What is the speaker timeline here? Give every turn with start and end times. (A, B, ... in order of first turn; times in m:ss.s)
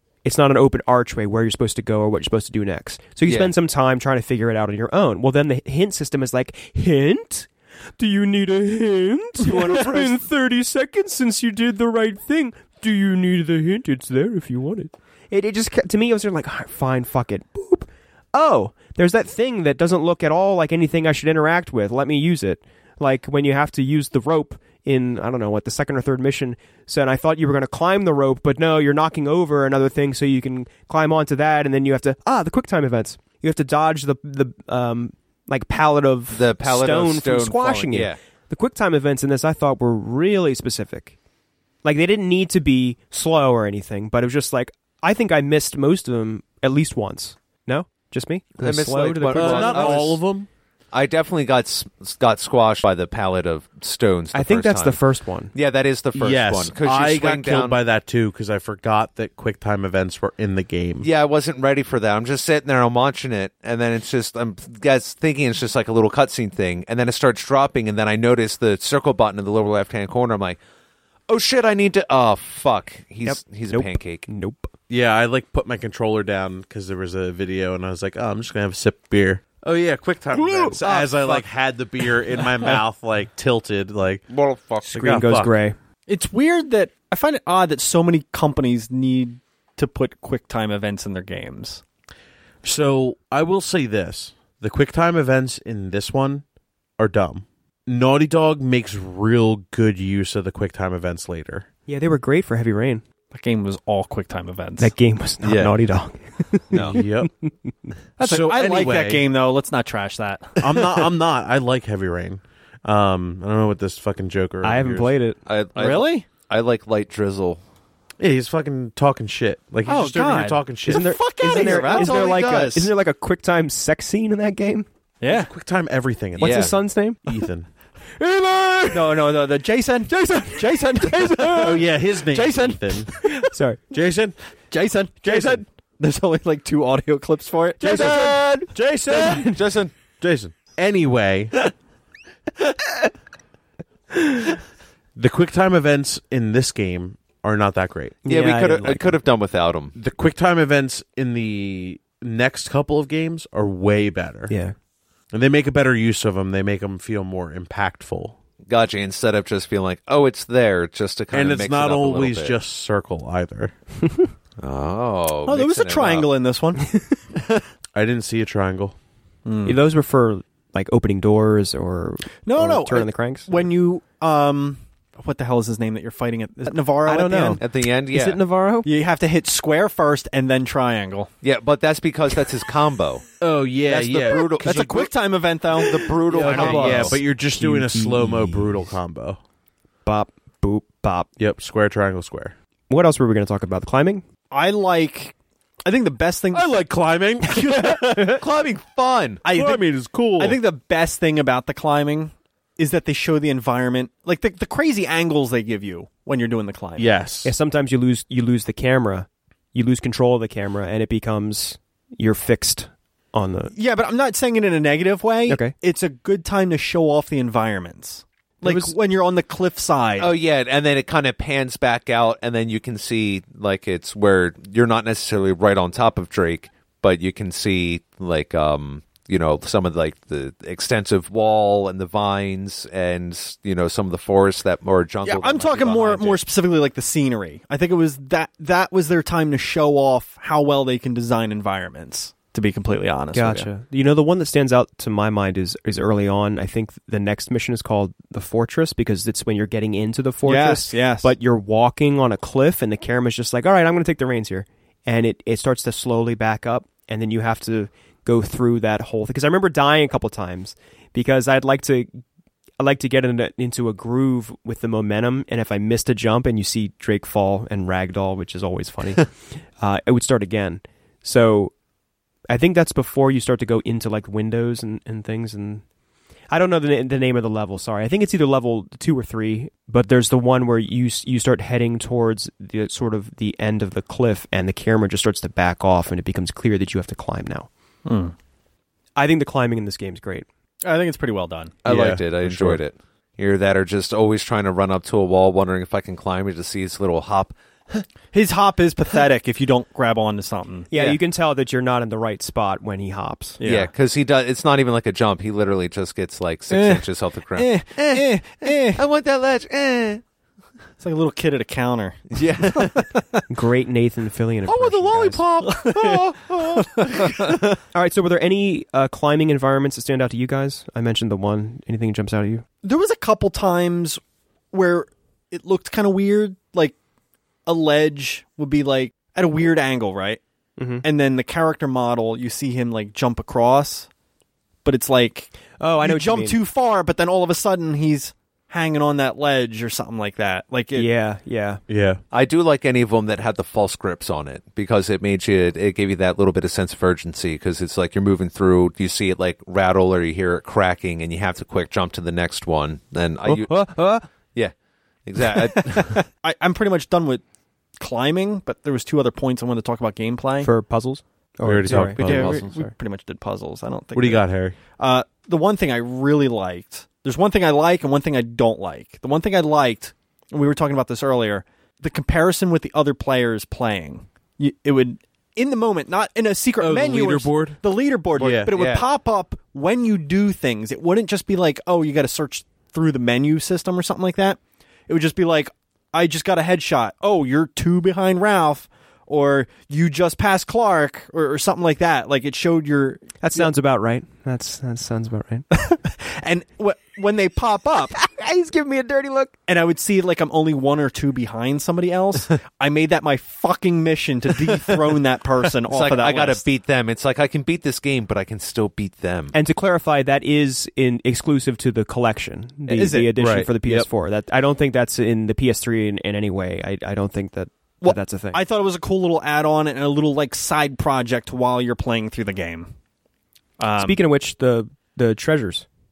0:00.2-0:41.1 A
0:03.2-0:03.5 B
0:09.4-0:10.2 B
0:36.3-0:38.2 B
0:41.8-0:50.2 A
0:48.6-0:50.2 B
0:49.3-0:50.5 C
0:50.9-0:55.0 B
0:54.3-0:55.5 A
0:55.5-0:57.8 B
0:56.1-1:01.1 C
1:01.0-1:10.6 B
1:11.3-1:14.2 B
1:13.2-1:14.7 A
1:14.9-1:24.2 C
1:20.6-1:21.4 B
1:24.3-1:24.9 B
1:24.9-1:25.8 A
1:24.9-1:25.5 C
1:26.1-1:31.8 D
1:32.6-1:36.4 C
1:37.0-1:41.6 C
1:41.9-1:43.0 A
1:43.3-1:44.9 D
1:44.8-1:47.9 A
1:45.4-1:45.7 B
1:46.7-1:47.0 B
1:46.7-1:47.3 C
1:48.2-1:49.2 C
1:48.2-1:51.0 D
1:50.6-1:55.1 C
1:54.6-1:55.4 A
1:55.4-1:57.6 B
1:55.7-1:56.2 D
1:58.2-2:01.2 C
1:59.8-2:02.3 D
2:00.9-2:04.9 A
2:01.4-2:02.9 B
2:05.2-2:05.5 D
2:05.3-2:07.7 C
2:06.4-2:06.8 B
2:06.4-2:07.2 A
2:08.2-2:08.8 A
2:08.9-2:13.2 D
2:11.4-2:13.1 C
2:13.4-2:13.8 A
2:13.9-2:14.4 C
2:14.7-2:18.4 D
2:15.2-2:15.6 C
2:17.8-2:19.6 A
2:17.9-2:19.5 C
2:19.3-2:19.9 B
2:20.1-2:21.6 C
2:24.1-2:24.4 A
2:25.2-2:28.2 C
2:28.2-2:29.2 A
2:28.2-2:29.9 B
2:29.9-2:34.5 C
2:34.5-2:34.7 A
2:35.3-2:38.4 C
2:38.7-2:42.6 B
2:41.3-2:43.7 C
2:44.6-2:46.3 B
2:45.4-2:46.9 D
2:47.9-2:48.9 C
2:49.4-2:49.8 D
2:49.6-2:53.5 A
2:52.4-2:57.6 D
2:57.0-2:58.9 A
2:57.6-2:58.4 B
2:58.8-3:01.3 D
3:01.4-3:03.2 B
3:03.4-3:05.0 C
3:03.9-3:05.1 B
3:04.4-3:07.1 D
3:05.7-3:07.2 B
3:06.4-3:09.4 C
3:06.4-3:08.9 A
3:10.0-3:11.3 A
3:11.4-3:12.5 C
3:12.9-3:14.2 A
3:14.5-3:16.7 D
3:16.5-3:18.4 C
3:17.7-3:19.4 B
3:19.4-3:19.8 D
3:19.5-3:20.6 C
3:20.4-3:27.1 D
3:27.0-3:27.5 C
3:27.4-3:33.7 A
3:33.7-3:40.3 D
3:35.5-3:35.7 A
3:38.6-3:38.9 A
3:40.2-3:56.4 B
3:55.2-4:03.7 D
4:03.3-4:22.1 A
4:10.4-4:11.3 D
4:22.8-4:31.7 A
4:32.5-4:35.8 A
4:36.5-4:47.7 A
4:48.0-4:48.3 D
4:49.2-4:50.4 A
4:50.8-4:51.8 D
4:51.8-4:52.8 C
4:51.8-4:58.0 B
4:58.3-5:00.9 D
5:00.9-5:03.6 A
5:03.6-5:03.9 D
5:03.6-5:10.2 B
5:06.7-5:09.0 D
5:11.0-5:13.2 D
5:12.3-5:13.1 B
5:13.5-5:15.4 A
5:15.5-5:17.6 B
5:15.6-5:17.6 D
5:17.9-5:22.6 A
5:22.8-5:24.2 D
5:24.7-5:27.0 D
5:27.6-5:30.4 D
5:30.8-5:31.0 A
5:31.0-5:34.1 D
5:34.8-5:41.1 D
5:35.8-5:36.6 A
5:40.9-5:41.8 A
5:41.9-5:42.2 C
5:42.3-5:56.2 B
5:53.4-5:54.2 A
5:55.4-5:57.4 D
5:58.0-6:00.7 D
6:00.6-6:02.2 A
6:01.6-6:02.7 C
6:01.9-6:02.9 B
6:02.0-6:33.7 D
6:04.1-6:04.8 C
6:16.8-6:17.8 C
6:18.4-6:18.7 C
6:18.7-6:19.0 B
6:33.4-6:35.7 A
6:35.7-6:38.2 D
6:38.1-6:39.5 A
6:39.7-6:46.6 D
6:45.9-6:49.5 B
6:49.5-6:58.6 A
6:52.9-6:53.4 D
6:53.4-6:54.1 C
6:58.0-7:02.9 D
7:03.8-7:04.2 D
7:04.0-7:05.8 A